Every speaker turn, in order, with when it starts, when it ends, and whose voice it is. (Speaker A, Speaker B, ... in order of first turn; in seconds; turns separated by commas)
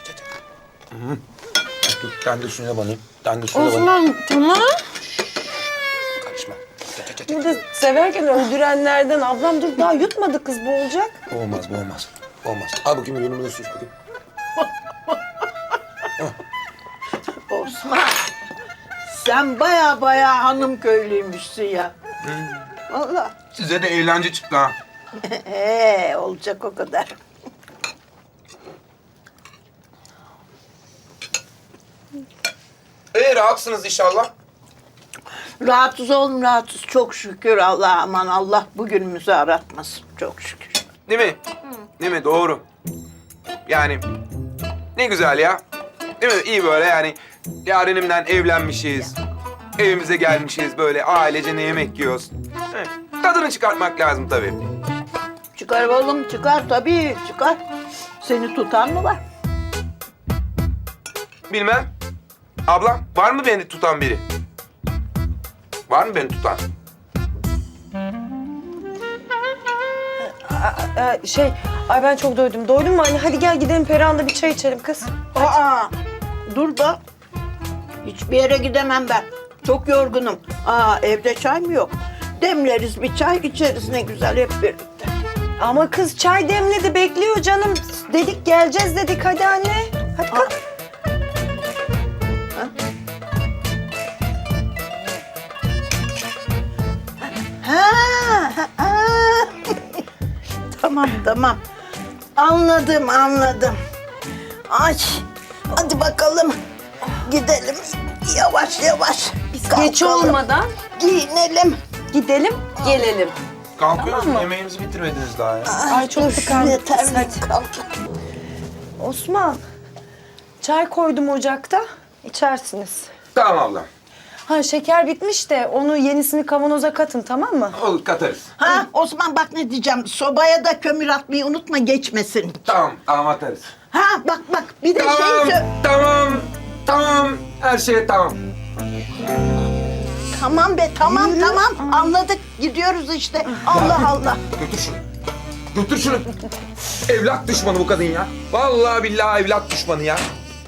Speaker A: 0.9-1.2, Speaker A: 1.8-4.0, Speaker A: 6.2-7.5, Speaker B: 7.2-11.2, Speaker A: 11.3-13.9, Speaker C: 17.5-18.2, Speaker C: 19.1-21.9, Speaker A: 22.2-22.7, Speaker C: 22.9-23.3, Speaker A: 23.5-24.8, Speaker C: 25.2-27.1, Speaker A: 33.1-34.3, Speaker C: 35.6-40.8, Speaker A: 41.1-41.4, Speaker A: 42.0-42.6, Speaker A: 43.7-44.0, Speaker A: 44.9-45.6, Speaker A: 46.2-49.2, Speaker A: 49.8-54.6, Speaker C: 55.5-57.6, Speaker C: 58.2-59.2, Speaker A: 61.5-61.9, Speaker A: 62.6-64.2, Speaker A: 65.9-66.6, Speaker B: 70.2-75.1, Speaker C: 75.3-75.9, Speaker C: 76.5-77.0, Speaker C: 78.0-85.0, Speaker B: 85.6-90.5, Speaker C: 97.6-100.0, Speaker C: 100.7-101.6, Speaker C: 102.3-103.8, Speaker C: 104.7-106.6, Speaker C: 107.1-110.4, Speaker B: 109.5-110.7, Speaker C: 111.0-111.8, Speaker B: 112.1-113.4, Speaker A: 113.8-115.7, Speaker B: 114.0-114.5, Speaker C: 115.6-117.9, Speaker B: 115.9-117.4, Speaker B: 119.0-119.6, Speaker B: 120.6-123.1, Speaker A: 123.3-123.9, Speaker B: 124.4-127.8, Speaker A: 127.7-128.5, Speaker C: 128.6-132.6, Speaker A: 132.6-133.7, Speaker C: 133.9-135.7, Speaker A: 134.9-138.4, Speaker C: 140.3-144.4, Speaker A: 143.7-145.0, Speaker A: 145.7-146.3, Speaker A: 147.1-150.3